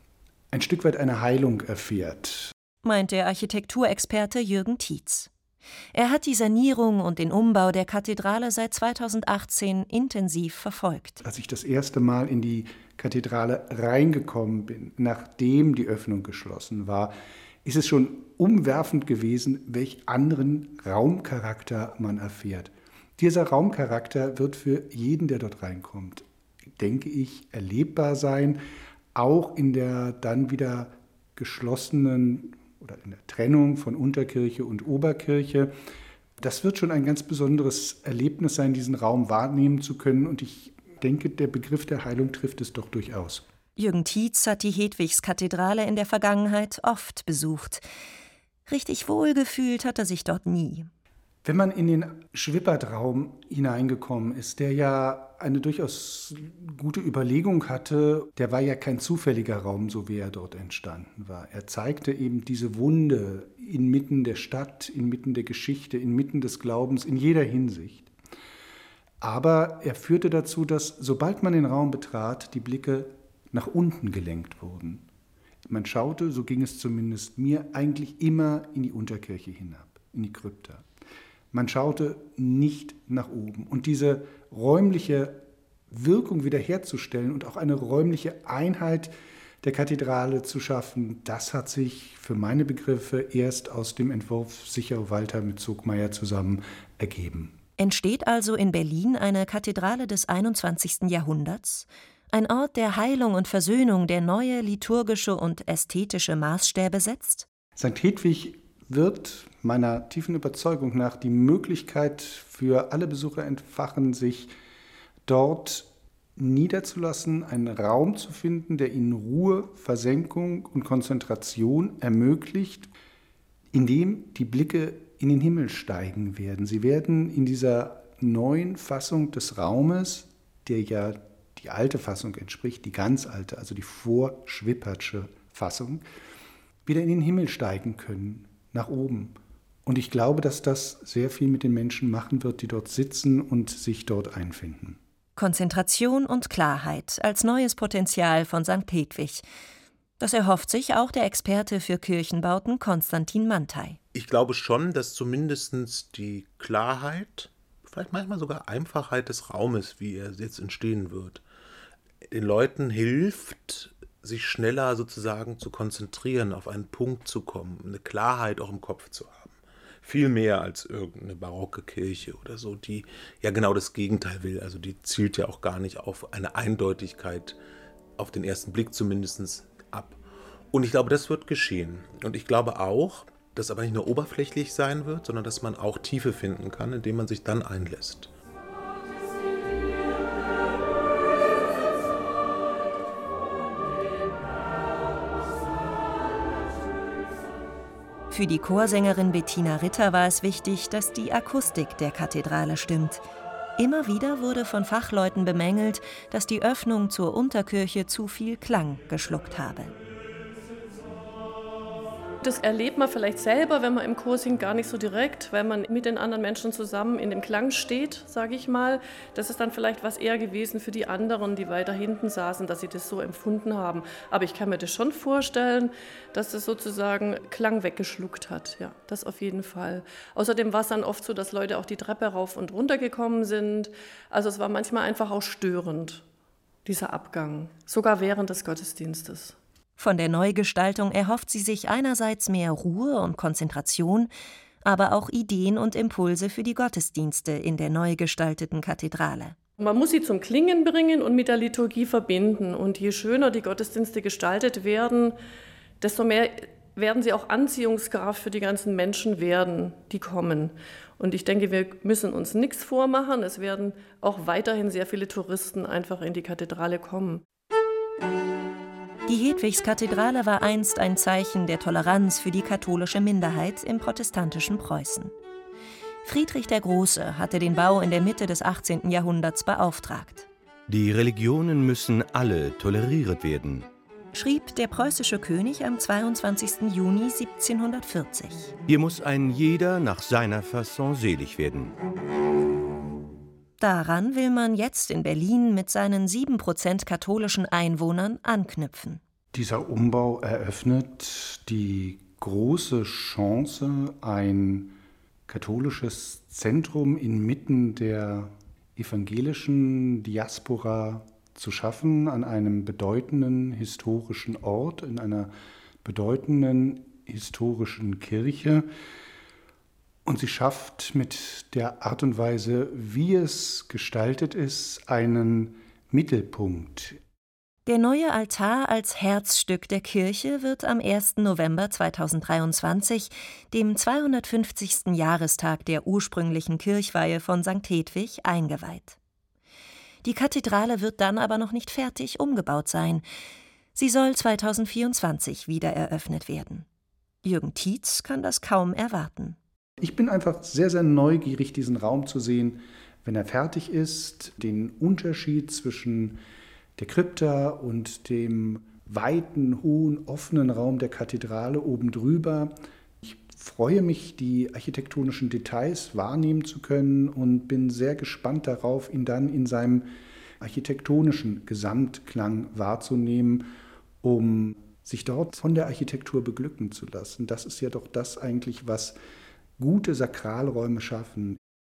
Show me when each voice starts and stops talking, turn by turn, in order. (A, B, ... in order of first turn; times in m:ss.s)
0:00.5-0:02.5 A
0:02.8-0:05.3 B
0:05.9-0:11.2 B
0:11.2-0:17.1 A
0:17.6-0:26.2 A
0:26.8-0:28.6 A
0:29.2-0:35.7 A
0:36.4-0:43.4 A
0:43.8-0:47.9 B
0:48.7-0:50.9 B
0:51.4-1:08.1 A
1:09.2-1:15.0 A
1:15.7-1:20.9 A
1:21.5-1:37.6 A
1:37.8-1:47.5 B
1:47.8-1:54.5 A
1:55.3-2:02.9 A
2:03.7-2:16.0 A
2:16.9-2:25.0 A
2:25.4-2:29.5 B
2:30.2-2:34.0 B
2:34.1-2:41.4 C
2:42.3-2:57.6 C
2:58.2-3:00.2 C
3:00.7-3:08.3 C
3:18.3-3:23.2 B
3:23.8-3:30.0 B
3:32.4-3:56.2 D
3:56.8-3:59.6 D
4:00.0-4:04.3 B
4:04.8-4:09.6 B
4:09.8-4:15.4 D
4:16.0-4:27.4 D
4:29.3-4:35.3 B
4:36.2-4:40.5 B
4:40.9-4:43.9 E
4:44.3-4:48.7 B
4:48.9-4:51.9 E
4:53.8-4:59.2 B
4:59.5-5:05.0 A
5:05.5-5:15.5 A
5:16.0-5:18.9 A
5:20.3-5:27.2 A
5:27.9-5:39.2 B
5:40.2-5:43.2 B
5:44.0-5:46.9 B
5:47.4-5:49.6 B
5:50.0-5:56.4 A
5:57.0-6:10.1 A
6:10.6-6:13.7 A
6:14.2-6:19.2 A
6:19.8-6:21.6 A